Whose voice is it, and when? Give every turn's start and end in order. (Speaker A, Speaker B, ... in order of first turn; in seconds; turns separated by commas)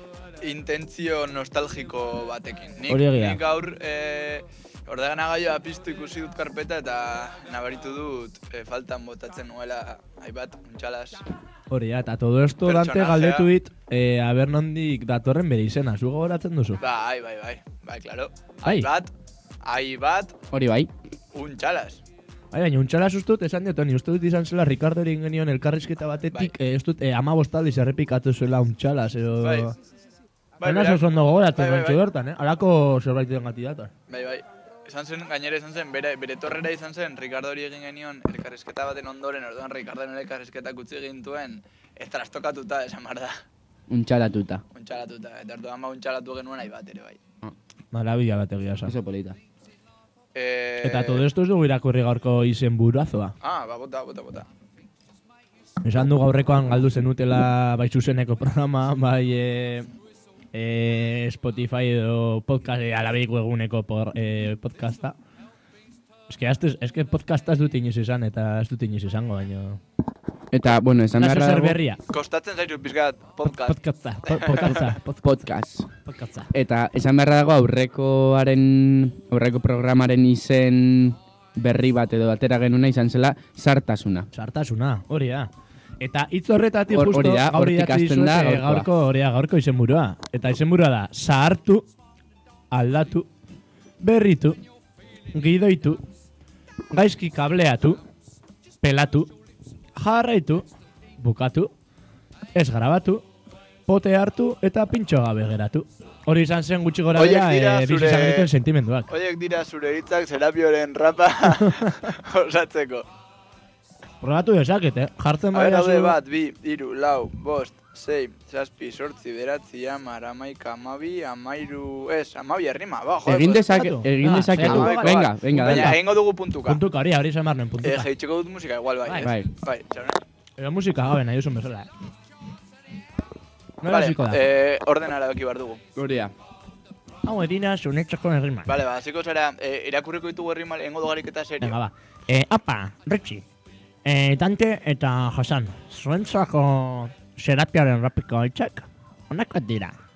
Speaker A: 0.4-11.2, Speaker B: 2.9-3.4, Speaker B: 11.7-16.8, Speaker A: 12.7-13.5, Speaker A: 16.8-19.1, Speaker A: 19.6-20.4, Speaker C: 20.5-20.9, Speaker A: 21.3-22.0, Speaker B: 22.5-29.7, Speaker A: 29.4-29.7, Speaker A: 30.6-32.0, Speaker B: 30.6-33.9, Speaker A: 34.1-43.4, Speaker C: 43.9-44.6, Speaker A: 44.7-47.2, Speaker B: 47.9-49.0, Speaker C: 48.9-49.4, Speaker A: 50.4-51.3, Speaker B: 50.8-53.3, Speaker A: 53.4-54.5, Speaker B: 55.8-59.9, Speaker B: 60.5-65.2, Speaker B: 66.3-69.8, Speaker C: 70.5-71.8, Speaker B: 71.2-72.0, Speaker A: 72.1-74.9, Speaker B: 73.5-75.2, Speaker C: 75.2-75.9, Speaker B: 76.1-76.5, Speaker C: 76.5-84.3, Speaker B: 84.3-85.5, Speaker B: 86.0-91.9, Speaker C: 86.9-88.9, Speaker B: 92.7-93.3, Speaker B: 94.0-94.6, Speaker B: 95.3-96.0, Speaker B: 96.9-98.0, Speaker B: 98.8-99.3, Speaker B: 100.0-100.7, Speaker B: 101.2-101.7, Speaker B: 102.5-103.2, Speaker B: 103.9-109.1, Speaker A: 107.2-108.5, Speaker A: 109.1-113.1, Speaker B: 111.5-112.0, Speaker B: 114.2-116.2, Speaker A: 115.5-123.8, Speaker C: 123.3-126.0, Speaker B: 123.7-126.0, Speaker A: 124.5-126.8, Speaker B: 126.7-128.1, Speaker A: 127.8-130.2, Speaker B: 129.1-129.3, Speaker C: 129.2-129.5, Speaker B: 130.6-131.9, Speaker B: 133.8-134.4, Speaker A: 133.9-135.8, Speaker C: 135.9-136.3, Speaker B: 137.2-138.7, Speaker A: 138.7-141.8, Speaker B: 141.6-143.4, Speaker B: 144.1-149.9